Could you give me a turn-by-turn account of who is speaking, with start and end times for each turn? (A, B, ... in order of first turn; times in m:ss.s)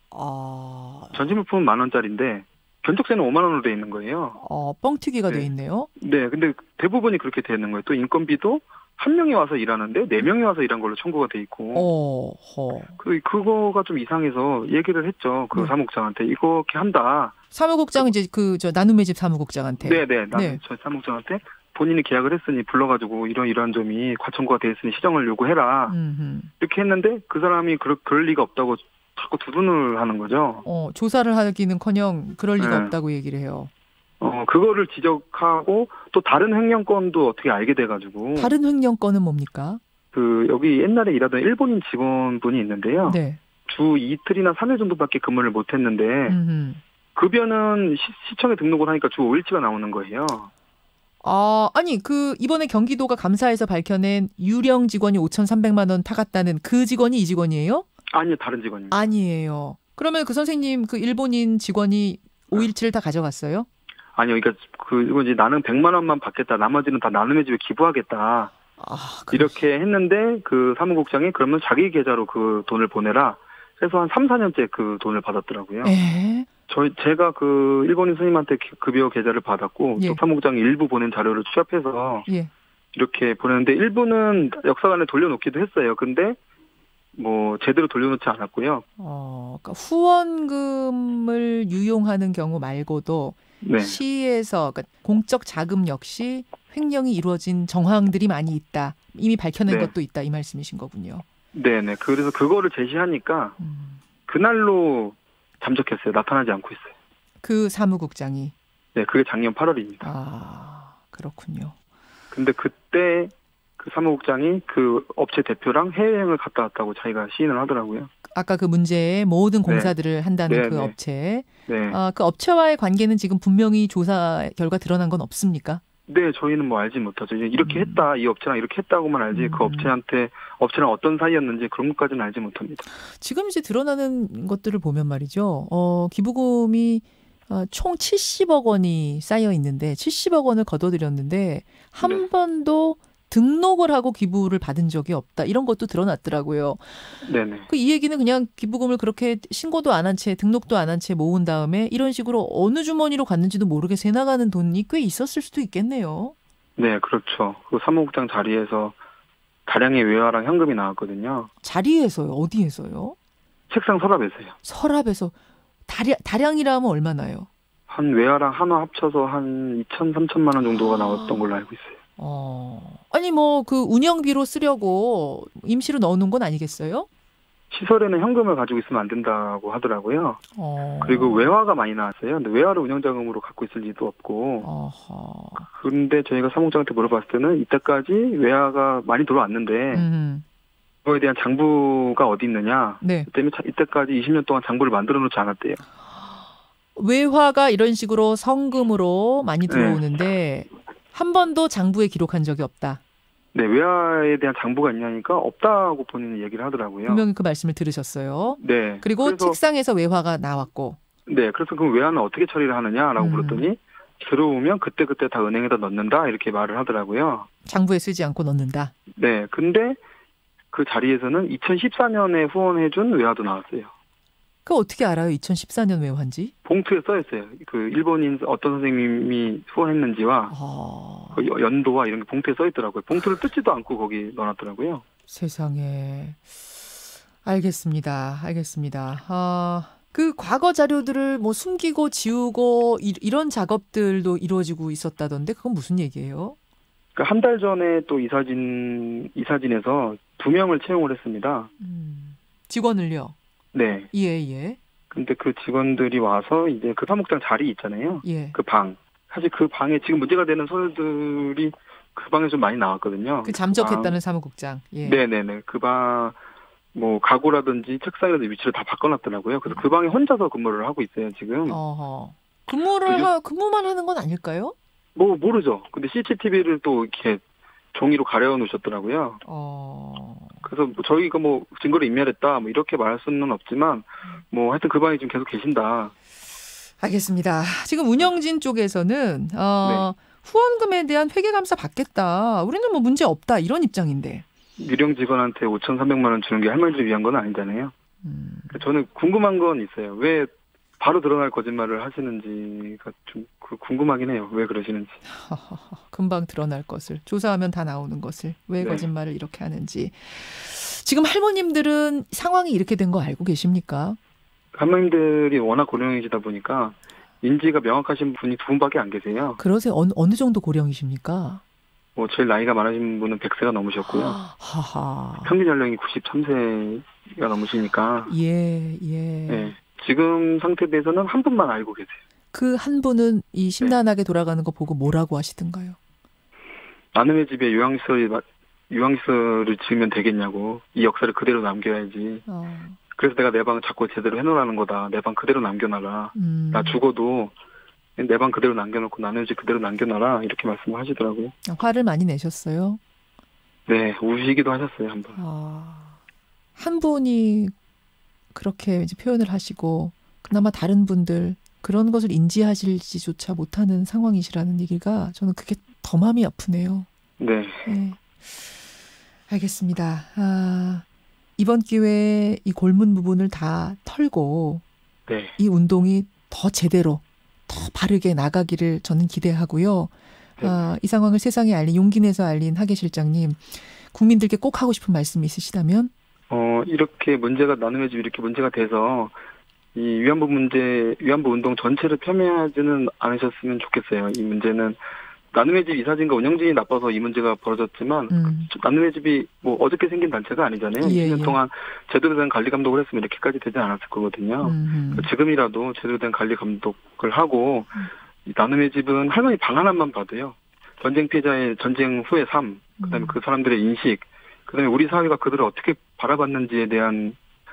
0:00.1-0:01.4 A
0:01.1-0:04.4 B
0:04.4-0:05.9 A
0:05.3-0:11.9 B
0:11.7-0:13.0 A
0:13.0-0:17.3 B
0:17.5-0:20.6 A
0:19.8-0:25.9 B
0:25.9-0:26.5 A
0:26.6-0:30.6 B
0:30.6-0:33.7 A
0:32.6-0:32.9 B
0:34.2-0:38.5 B
0:38.3-0:39.8 A
0:40.1-0:46.4 B
0:43.0-0:43.4 A
0:46.3-0:46.8 A
0:47.2-0:50.5 B
0:51.2-0:57.8 A
0:58.1-0:59.0 B
0:58.9-1:03.7 A
1:04.2-1:08.5 B
1:08.8-1:09.6 A
1:09.3-1:15.9 B
1:15.8-1:16.5 A
1:16.7-1:22.3 B
1:22.9-1:26.4 B
1:27.2-1:28.8 B
1:29.0-1:41.2 A
1:33.6-1:34.0 B
1:39.6-1:39.9 B
1:41.5-1:43.6 B
1:43.6-1:44.0 A
1:44.3-1:46.9 B
1:47.4-1:48.5 A
1:48.9-1:50.1 B
1:50.0-1:51.7 A
1:52.3-1:58.1 B
1:58.3-2:05.8 A
1:59.6-1:59.9 B
2:00.5-2:00.9 B
2:01.6-2:02.0 B
2:06.1-2:12.8 B
2:07.6-2:08.0 A
2:09.3-2:09.9 A
2:13.0-2:27.0 A
2:27.2-2:27.7 B
2:27.7-2:36.3 A
2:36.8-2:38.9 B
2:39.7-2:41.5 B
2:41.6-2:43.2 A
2:43.7-2:44.6 B
2:44.6-2:45.3 A
2:45.8-2:47.5 A
2:47.9-2:52.0 B
2:50.7-2:51.5 A
2:52.2-2:57.1 A
2:57.7-3:00.4 B
3:00.6-3:01.5 A
3:01.0-3:04.7 B
3:04.6-3:05.7 A
3:05.6-3:10.1 B
3:09.9-3:10.4 A
3:11.0-3:15.8 B
3:13.0-3:13.3 A
3:16.1-3:16.4 A
3:16.9-3:23.0 A
3:19.7-3:20.0 B
3:23.5-3:27.2 B
3:27.0-3:31.0 A
3:28.6-3:29.6 B
3:31.3-3:37.5 B
3:33.2-3:33.7 A
3:37.6-3:38.9 A
3:39.2-3:40.0 B
3:40.7-3:43.9 B
3:44.6-3:46.5 A
3:46.6-3:50.5 B
3:50.5-3:51.5 A
3:51.3-3:55.0 B
3:55.3-3:56.4 A
3:57.4-4:06.6 A
4:07.2-4:11.7 B
4:11.8-4:13.3 A
4:13.7-4:14.1 B
4:14.1-4:14.8 A
4:15.1-4:24.2 B
4:18.2-4:18.6 A
4:23.4-4:25.2 A
4:25.0-4:26.4 B
4:26.9-4:31.8 B
4:31.7-4:34.7 A
4:35.2-4:37.4 B
4:37.9-4:39.4 B
4:39.4-4:40.6 A
4:40.6-4:46.1 B
4:47.0-4:54.4 A
4:49.8-4:50.1 B
4:54.8-4:57.9 B
4:58.2-4:58.8 A
4:58.7-5:05.2 B
5:05.3-5:14.2 A
5:08.8-5:09.1 B
5:14.7-5:19.6 B
5:19.6-5:21.6 A
5:22.2-5:24.4 B
5:24.1-5:25.6 A
5:25.4-5:28.3 B
5:28.3-5:29.7 A
5:29.5-5:32.2 B
5:32.5-5:36.0 A
5:37.1-5:42.4 B
5:42.4-5:43.0 A
5:43.2-5:47.5 B
5:46.3-5:47.0 A
5:48.2-5:51.5 B
5:51.6-5:53.0 A
5:53.9-5:55.4 B
5:55.3-5:56.2 A
5:56.8-5:57.7 A
5:58.5-6:07.1 A
6:07.4-6:07.9 B
6:07.8-6:08.6 A
6:09.5-6:11.0 A
6:11.6-6:14.8 A
6:15.3-6:15.6 B
6:15.6-6:26.1 A
6:20.6-6:20.9 B
6:26.5-6:29.3 B
6:29.9-6:35.0 B
6:35.5-6:57.4 B
6:38.3-6:38.7 A
6:41.0-6:41.6 A
6:44.6-6:45.3 A
6:53.0-6:53.4 A